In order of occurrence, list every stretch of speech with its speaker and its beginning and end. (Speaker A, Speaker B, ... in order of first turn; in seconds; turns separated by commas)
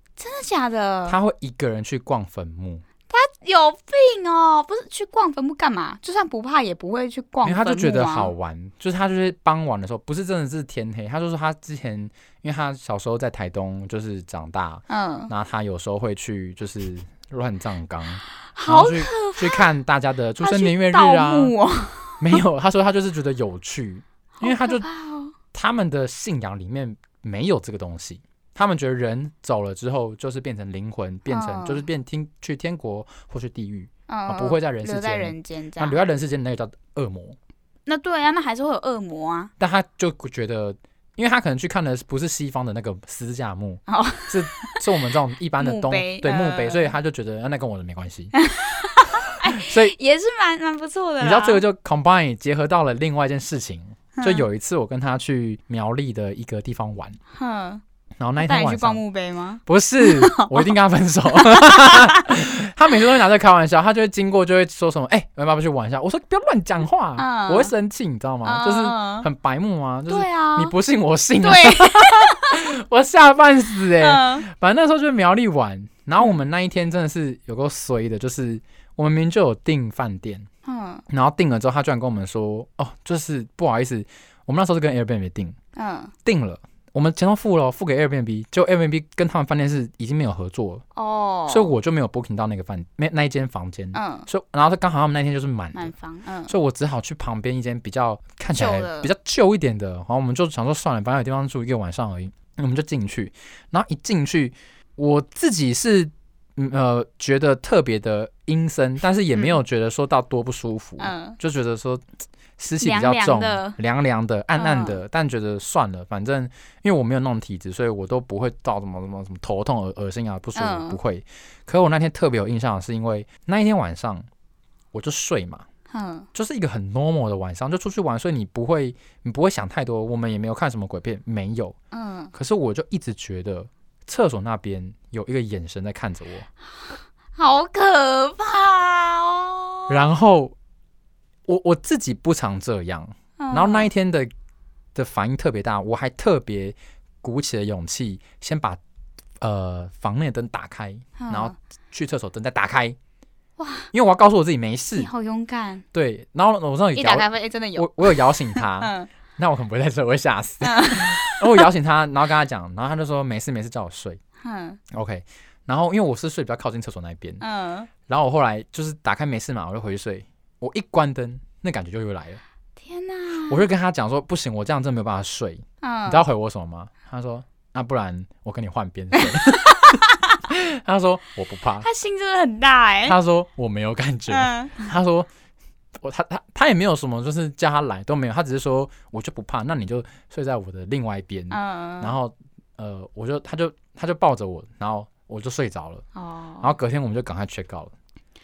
Speaker A: 0.2-1.2, Speaker B: 1.1-2.8, Speaker A: 3.1-8.3, Speaker B: 7.4-21.5, Speaker A: 14.9-15.3, Speaker A: 18.6-19.7, Speaker A: 20.4-22.4, Speaker B: 22.2-24.9, Speaker A: 24.4-25.4, Speaker B: 25.5-37.4, Speaker A: 31.3-31.9, Speaker A: 34.1-36.0, Speaker A: 37.9-39.5, Speaker B: 39.6-48.3, Speaker A: 43.9-44.8, Speaker A: 45.6-46.9, Speaker A: 48.4-51.6, Speaker B: 49.5-50.0, Speaker B: 51.2-57.2, Speaker A: 54.1-54.5, Speaker A: 57.4-57.8, Speaker B: 58.2-59.0, Speaker A: 58.4-60.7, Speaker B: 59.7-80.5, Speaker A: 61.4-62.3, Speaker A: 67.2-67.7, Speaker A: 68.4-69.3, Speaker A: 70.1-70.8, Speaker A: 71.4-72.6, Speaker A: 74.0-74.5, Speaker A: 80.7-81.0, Speaker B: 81.1-85.6, Speaker A: 85.8-86.1, Speaker B: 86.2-90.8, Speaker A: 91.0-91.7, Speaker B: 91.5-95.9, Speaker A: 93.9-94.3, Speaker A: 95.7-96.5, Speaker B: 96.5-112.0, Speaker A: 98.5-99.1, Speaker A: 111.0-111.4, Speaker B: 112.6-124.3, Speaker A: 112.8-113.8, Speaker A: 114.6-115.0, Speaker A: 120.5-121.0, Speaker B: 124.9-125.7, Speaker A: 125.9-126.3, Speaker B: 126.3-131.8, Speaker A: 131.9-132.3, Speaker B: 132.3-136.5, Speaker A: 136.9-140.0, Speaker B: 139.9-140.5, Speaker B: 141.5-144.3, Speaker A: 143.4-143.9, Speaker B: 144.9-148.8, Speaker B: 149.4-153.0, Speaker A: 151.2-151.6, Speaker A: 153.6-153.9, Speaker B: 153.9-155.1, Speaker A: 155.0-155.8, Speaker B: 155.9-164.2, Speaker A: 156.9-159.1, Speaker A: 160.6-161.6, Speaker A: 164.4-164.8, Speaker B: 164.9-167.4, Speaker A: 167.4-167.9, Speaker B: 168.1-172.4, Speaker A: 172.8-173.6, Speaker B: 173.5-181.9, Speaker A: 175.8-176.2, Speaker A: 179.2-180.4, Speaker A: 181.8-183.2, Speaker B: 183.1-185.3, Speaker A: 184.3-184.8, Speaker B: 186.0-196.0, Speaker A: 191.5-192.2, Speaker A: 196.2-196.7, Speaker B: 196.6-197.9